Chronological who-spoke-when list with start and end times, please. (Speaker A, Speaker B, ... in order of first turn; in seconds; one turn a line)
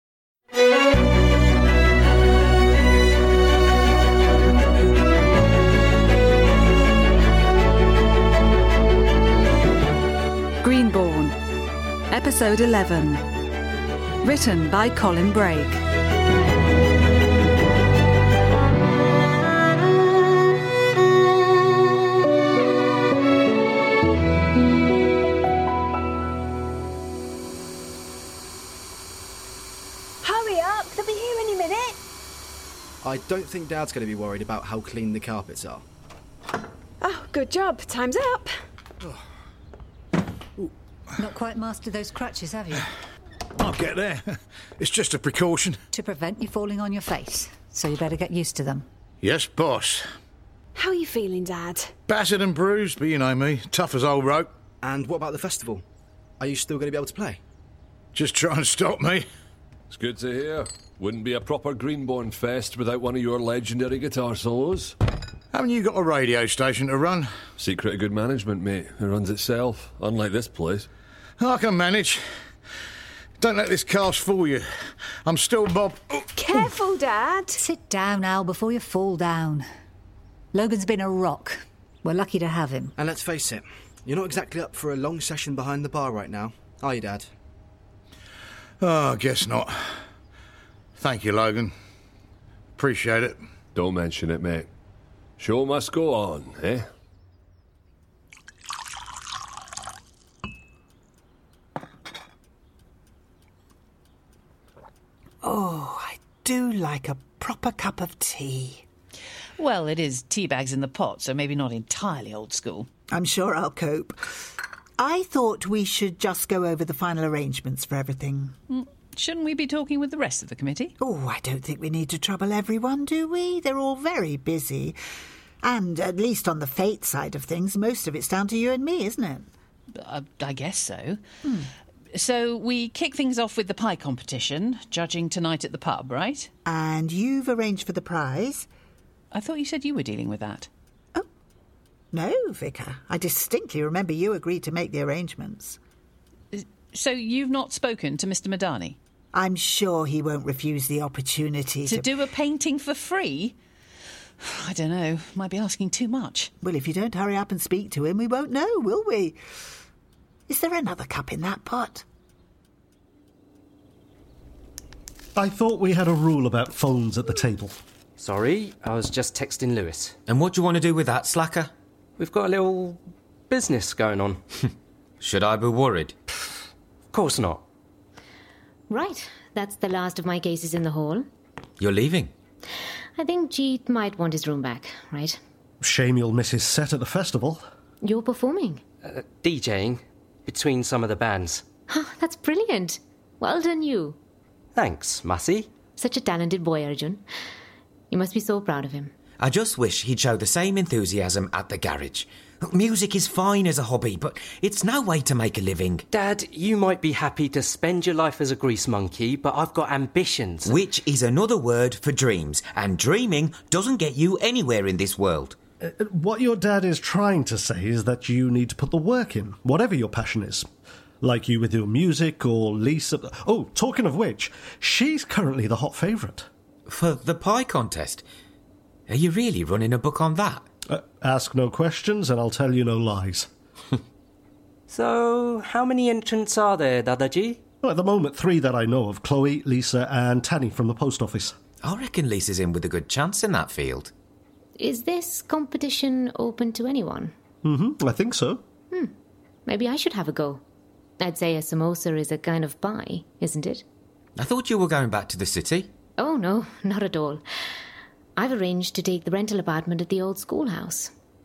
Speaker A: 10.6-11.4
Speaker A: 12.1-13.2
Speaker A: 14.2-15.8
Speaker B: 30.2-32.0
Speaker C: 33.0-35.9
Speaker B: 37.0-38.5
Speaker D: 41.2-42.9
Speaker E: 43.6-45.8
Speaker D: 45.9-48.9
Speaker E: 49.2-50.0
Speaker B: 50.8-51.9
Speaker E: 52.1-54.5
Speaker C: 54.8-55.9
Speaker C: 56.4-57.4
Speaker E: 58.1-59.2
Speaker F: 59.9-65.0
Speaker E: 65.5-67.3
Speaker F: 67.6-70.9
Speaker E: 71.4-72.2
Speaker E: 73.4-74.7
Speaker E: 75.3-76.3
Speaker B: 76.4-77.6
Speaker D: 77.6-79.7
Speaker D: 80.5-82.9
Speaker C: 83.0-87.3
Speaker E: 88.8-89.8
Speaker E: 91.0-91.7
Speaker E: 92.8-93.4
Speaker F: 93.8-94.7
Speaker F: 95.4-96.8
Speaker G: 105.4-108.8
Speaker H: 109.6-112.9
Speaker G: 113.1-114.2
Speaker G: 115.0-118.5
Speaker H: 118.7-120.9
Speaker G: 121.0-125.0
Speaker G: 125.6-129.5
Speaker H: 130.0-131.2
Speaker G: 131.4-131.7
Speaker H: 132.1-136.5
Speaker G: 136.7-138.7
Speaker H: 139.3-140.7
Speaker G: 142.1-145.8
Speaker H: 146.5-149.0
Speaker G: 149.3-152.1
Speaker H: 151.8-153.6
Speaker H: 154.4-156.5
Speaker G: 156.6-159.4
Speaker G: 160.5-162.1
Speaker I: 165.4-167.8
Speaker J: 168.2-170.1
Speaker K: 170.3-171.7
Speaker J: 172.2-173.0
Speaker J: 173.5-174.4
Speaker K: 175.2-176.2
Speaker J: 177.1-177.6
Speaker L: 178.9-181.3
Speaker K: 181.8-182.3
Speaker L: 183.2-185.4
Speaker I: 185.8-187.6
Speaker L: 188.0-188.8
Speaker J: 189.2-191.6
Speaker L: 191.9-194.2
Speaker J: 194.8-195.7
Speaker L: 196.0-197.2
Speaker L: 198.1-199.1
Speaker K: 199.4-206.1
Speaker J: 206.1-210.7
Speaker K: 210.6-215.6
Speaker I: 215.8-220.7
Speaker I: 221.2-226.5
Speaker K: 226.9-228.2
Speaker K: 229.1-230.6
Speaker I: 230.9-233.5
Speaker J: 234.9-236.5
Speaker J: 237.1-237.6
Speaker I: 237.8-241.6
Speaker K: 241.8-244.1
Speaker L: 244.8-247.3
Speaker I: 247.6-248.6
Speaker L: 249.7-250.6
Speaker L: 251.2-253.8
Speaker K: 254.4-255.9
Speaker L: 256.2-257.4
Speaker L: 258.4-261.1